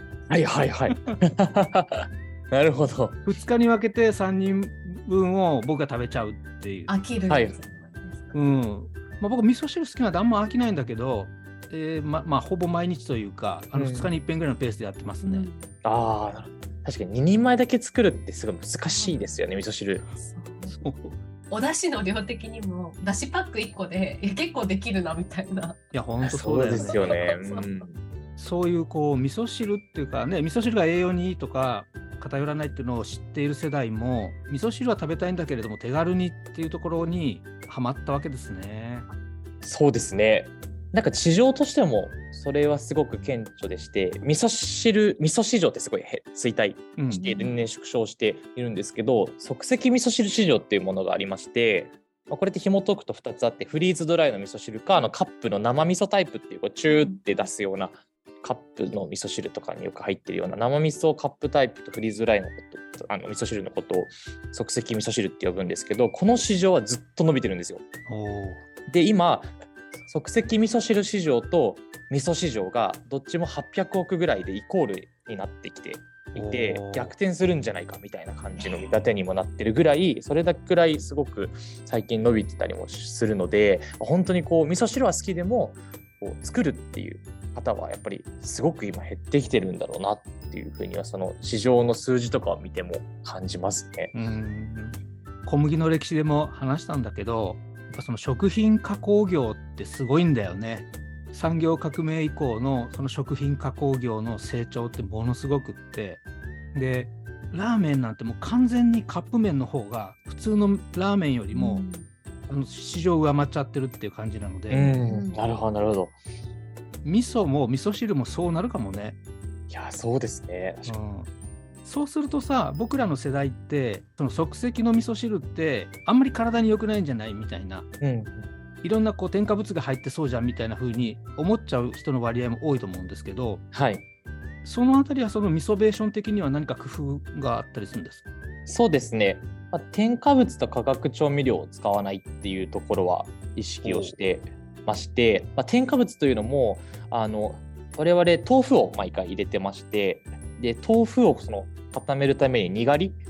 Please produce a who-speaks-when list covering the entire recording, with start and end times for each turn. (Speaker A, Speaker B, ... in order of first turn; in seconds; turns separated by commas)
Speaker A: 0.3-3.3, Speaker B: 0.9-1.2, Speaker B: 3.3-6.9, Speaker C: 6.9-8.4, Speaker A: 7.3-7.6, Speaker B: 8.3-15.5, Speaker A: 13.7-14.1, Speaker C: 15.2-15.7, Speaker A: 15.8-20.1, Speaker C: 18.9-19.4, Speaker C: 20.2-20.8, Speaker B: 20.7-21.2, Speaker C: 21.5-25.8, Speaker B: 25.9-27.0, Speaker A: 26.2-28.0, Speaker C: 26.7-27.9, Speaker B: 28.4-39.1, Speaker A: 39.6-67.8, Speaker B: 47.0-47.3, Speaker C: 47.1-47.5, Speaker C: 56.9-57.2, Speaker B: 68.1-68.6, Speaker A: 68.9-69.5, Speaker A: 70.1-94.1, Speaker B: 76.4-77.1, Speaker C: 78.6-78.9, Speaker B: 94.1-106.2, Speaker B: 106.7-111.8, Speaker C: 111.5-112.1, Speaker B: 112.5-114.9, Speaker A: 114.7-116.2, Speaker C: 115.0-115.4, Speaker B: 117.0-119.2, Speaker A: 119.7-121.0, Speaker B: 120.9-121.3, Speaker B: 121.8-127.9, Speaker A: 128.0-128.5, Speaker B: 128.8-133.6, Speaker A: 133.7-134.0, Speaker B: 134.6-138.2, Speaker A: 138.7-153.2